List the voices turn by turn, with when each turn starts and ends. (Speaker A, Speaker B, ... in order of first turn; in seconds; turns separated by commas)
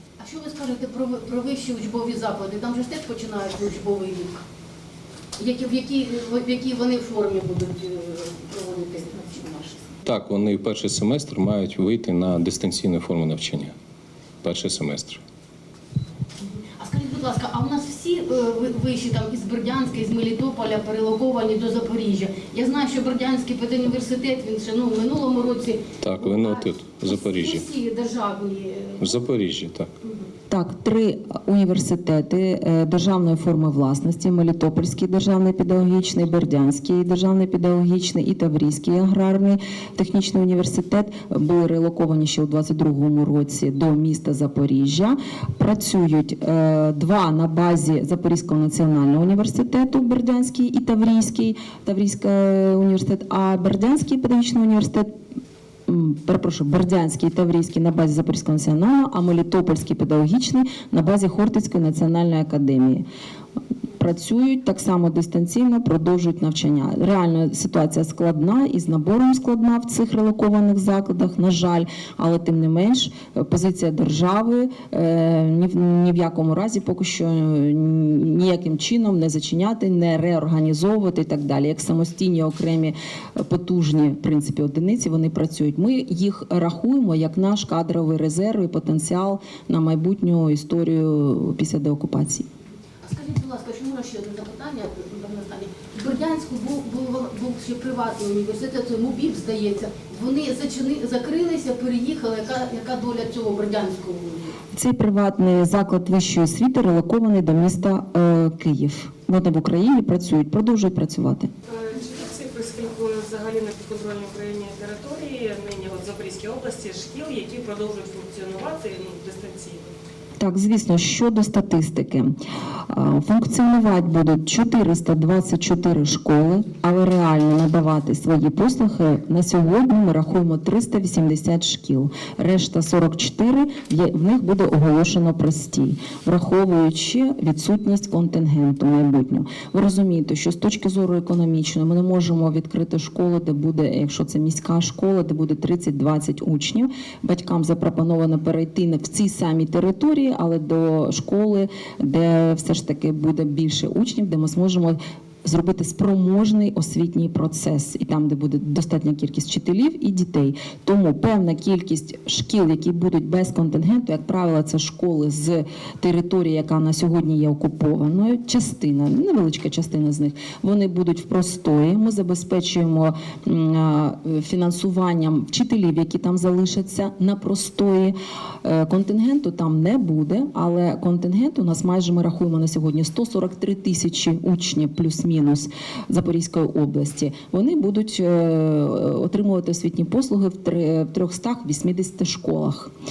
Speaker A: 0.2-4.4, Speaker A: 5.4-9.9, Speaker B: 10.1-13.7, Speaker B: 14.4-15.2, Speaker A: 16.4-29.2, Speaker B: 26.0-27.7, Speaker B: 29.0-29.9, Speaker C: 30.5-55.1, Speaker C: 55.9-63.0, Speaker C: 64.0-92.5, Speaker A: 93.0-104.5, Speaker C: 104.8-111.5, Speaker D: 111.9-119.8, Speaker C: 120.4-122.3, Speaker C: 122.9-192.9